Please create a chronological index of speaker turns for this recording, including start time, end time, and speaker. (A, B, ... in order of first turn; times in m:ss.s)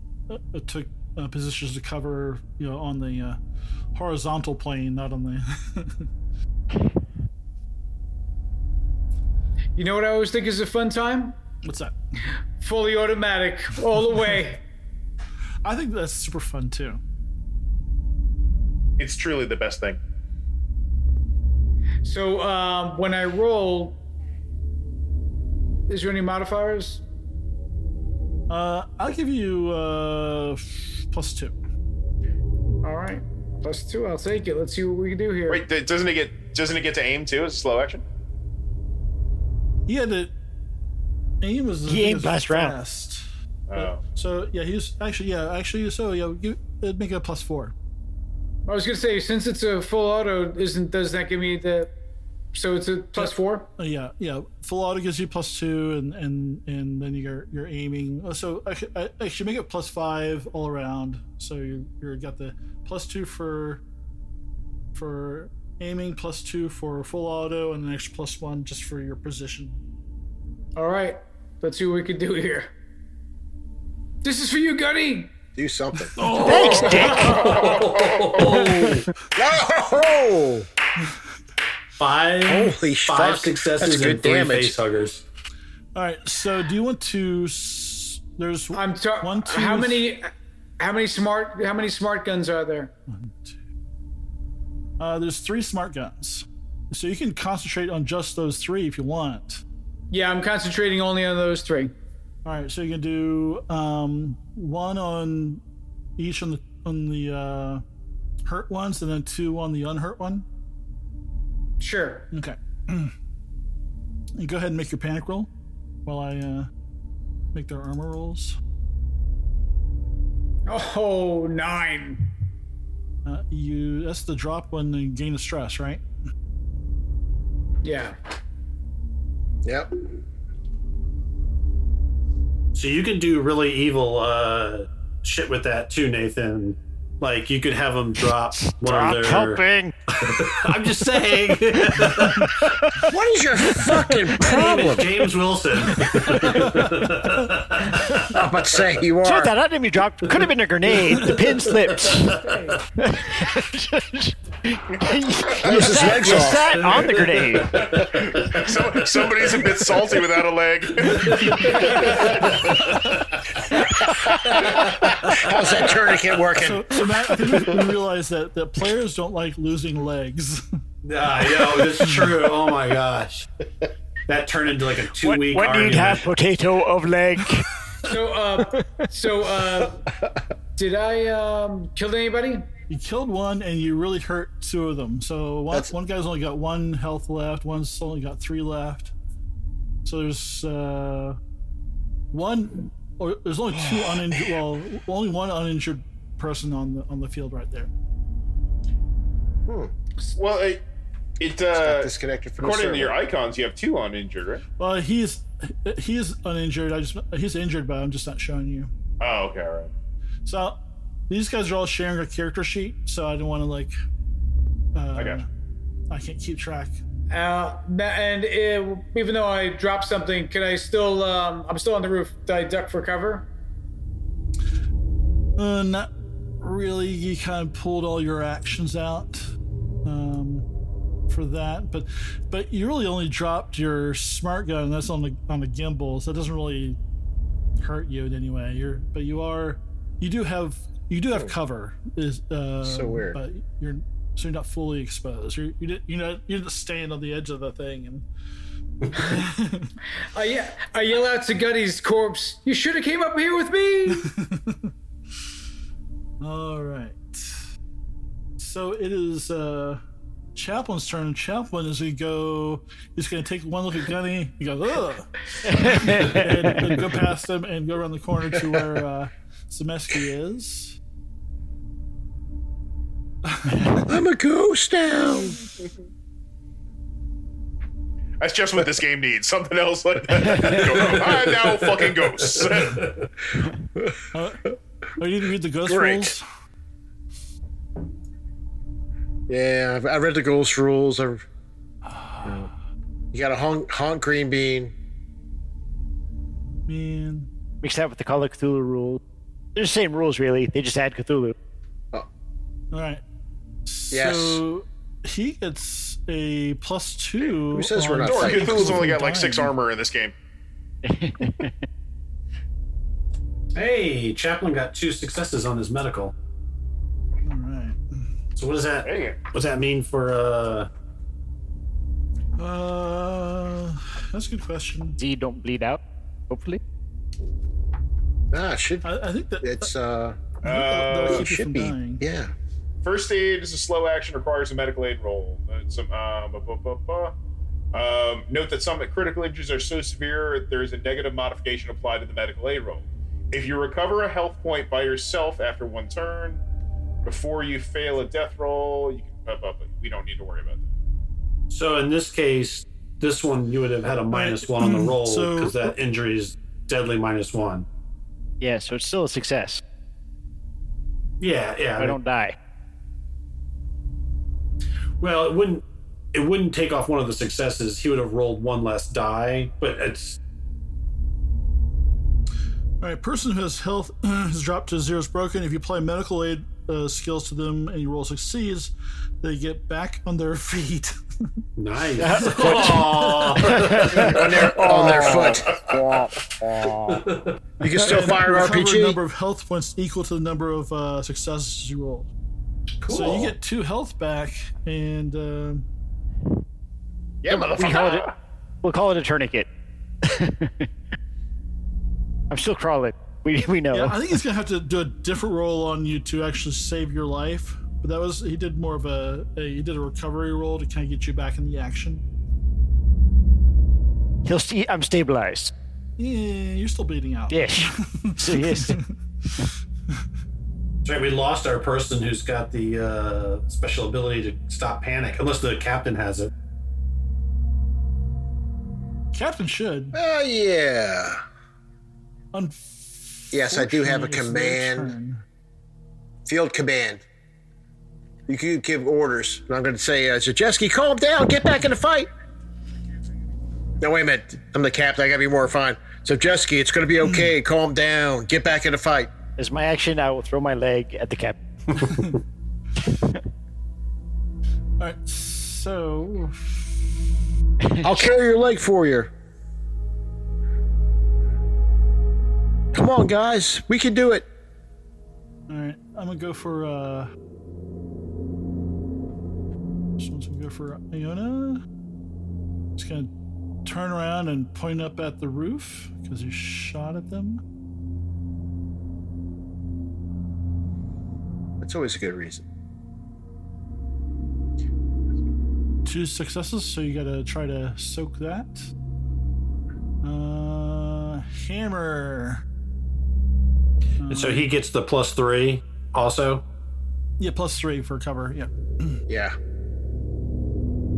0:00.3-0:03.4 A
0:04.0-0:06.1 A
0:09.8-0:11.4 B
0:11.6-0:12.0 A
0:12.6-0:14.6 B
0:15.6-0:17.0 A
0:19.0-0:20.0 C
0:22.0-0:24.0 B
0:25.9-0:27.0 B
0:28.5-0:31.6 A
0:32.8-0:35.6 B
0:35.5-0:38.0 C
0:39.9-0:40.3 A
0:41.4-0:43.2 A
0:41.9-0:42.8 D
0:43.7-0:44.0 C
0:43.8-0:47.7 A
0:48.7-0:51.9 B
0:52.5-0:53.7 B
0:53.2-1:03.8 A
1:04.9-1:09.8 A
1:10.8-1:12.7 B
1:14.2-1:15.3 B
1:15.6-1:16.2 E
1:16.2-1:19.1 F
1:16.3-1:17.7 D
1:16.6-1:18.6 C
1:18.5-1:19.0 D
1:19.4-1:20.7 E
1:22.0-1:25.2 F
1:22.4-1:24.8 E
1:26.0-1:30.1 A
1:28.7-1:32.9 B
1:33.1-1:33.6 A
1:35.0-1:39.6 A
1:40.1-1:41.9 B
1:42.4-1:45.6 A
1:46.2-1:47.8 A
1:48.4-1:50.5 A
1:51.8-1:52.3 B
1:52.3-1:53.1 A
1:54.4-1:55.5 A
1:56.1-1:56.7 A
1:57.6-1:58.6 A
2:00.7-2:02.3 B
2:03.2-2:06.0 A
2:07.8-2:08.2 B
2:09.6-2:09.9 E
2:12.7-2:22.7 F
2:18.6-2:19.9 D
2:21.8-2:23.1 D
2:23.0-2:25.2 E
2:24.4-2:28.3 F
2:26.0-2:27.1 A
2:28.1-2:29.5 E
2:29.2-2:32.4 D
2:31.2-2:32.6 F
2:32.2-2:32.8 B
2:33.0-2:37.9 D
2:35.6-2:36.8 E
2:35.7-2:36.1 C
2:36.1-2:38.7 F
2:37.7-2:42.8 C
2:41.1-2:43.1 F
2:41.2-2:42.0 A
2:43.8-2:47.2 E
2:44.5-2:46.0 F
2:46.6-2:50.6 A
2:51.0-2:53.5 F
2:52.0-2:52.4 A
2:54.3-2:56.3 F
2:55.2-2:57.7 D
2:58.0-3:00.0 B
2:58.8-2:59.1 D
3:00.8-3:02.7 B
3:02.9-3:09.1 A
3:10.0-3:11.4 A
3:12.3-3:17.9 A
3:19.7-3:19.9 E
3:20.4-3:20.8 C
3:21.4-3:24.6 C
3:21.8-3:23.2 E
3:24.8-3:28.9 A
3:29.2-3:29.9 C
3:30.5-3:30.8 A
3:31.3-3:33.9 A
3:35.0-3:35.5 A
3:35.2-3:35.4 C
3:36.1-3:37.0 A
3:37.3-3:43.5 B
3:45.6-3:46.1 A
3:46.6-3:49.5 A
3:50.0-3:50.7 A
3:51.3-3:57.0 A
3:57.8-4:08.2 A
4:02.8-4:03.4 E
4:09.2-4:09.9 A
4:10.3-4:14.3 B
4:14.2-4:14.9 A
4:16.4-4:17.6 A
4:18.6-4:20.0 A
4:20.6-4:31.0 A
4:25.7-4:27.0 D
4:33.5-4:34.0 A
4:34.1-4:35.6 E
4:38.4-4:43.1 C
4:40.8-4:42.0 F
4:42.8-4:43.3 F
4:44.0-4:44.2 E
4:44.3-4:46.4 A
4:45.9-4:46.3 E
4:49.5-4:51.5 E
4:52.1-4:52.6 A
4:53.3-4:55.0 E
4:56.9-4:57.5 A
4:57.8-4:59.2 D
4:59.8-5:01.6 D
5:02.9-5:03.2 A
5:03.9-5:09.8 A
5:04.1-5:04.6 E
5:07.7-5:09.1 E
5:08.2-5:10.3 C
5:11.0-5:11.7 D
5:13.8-5:16.3 F
5:17.4-5:18.0 A
5:18.6-5:20.9 F
5:19.0-5:19.4 C
5:22.6-5:25.2 A
5:25.2-5:26.8 D
5:28.5-5:29.1 E
5:29.0-5:29.9 A
5:29.6-5:30.6 E
5:30.6-5:31.4 C
5:30.6-5:32.2 A
5:31.2-5:32.5 E
5:33.0-5:37.3 C
5:37.9-5:46.6 C
5:47.2-5:50.9 C
5:51.7-5:57.9 F
5:54.3-5:56.0 A
5:58.6-5:59.8 D
6:01.4-6:02.2 F
6:02.0-6:02.6 D
6:05.2-6:05.8 F
6:06.3-6:10.4 F
6:13.0-6:21.2 A
6:21.8-6:25.8 F
6:22.2-6:27.3 D
6:22.4-6:23.9 A
6:24.1-6:25.8 E
6:26.9-6:27.6 F
6:27.8-6:29.2 E
6:27.9-6:32.3 A
6:33.0-6:33.5 F
6:33.1-6:35.9 A
6:37.4-6:38.3 C
6:37.5-6:38.3 D
6:38.8-6:39.7 D
6:40.2-6:40.9 D
6:42.5-6:44.2 D
6:43.9-6:52.2 A
6:54.4-6:55.7 D
6:56.2-6:59.0 A
6:57.5-6:59.0 D
7:01.0-7:06.5 F
7:09.3-7:10.2 A
7:10.1-7:11.4 E
7:12.5-7:15.4 A
7:13.5-7:15.1 E
7:16.5-7:17.2 E
7:18.5-7:22.3 E
7:24.0-7:29.3 E
7:29.6-7:31.6 D
7:35.0-7:36.9 A
7:38.0-7:39.3 E
7:42.9-7:44.5 E
7:45.7-7:47.3 A
7:50.2-7:51.8 A
7:53.0-7:53.3 A
7:53.8-7:57.6 A
8:01.8-8:02.7 E
8:06.0-8:08.9 A
8:10.2-8:12.6 A
8:14.2-8:14.7 A
8:14.3-8:16.6 F
8:17.4-8:19.2 A
8:19.3-8:19.6 E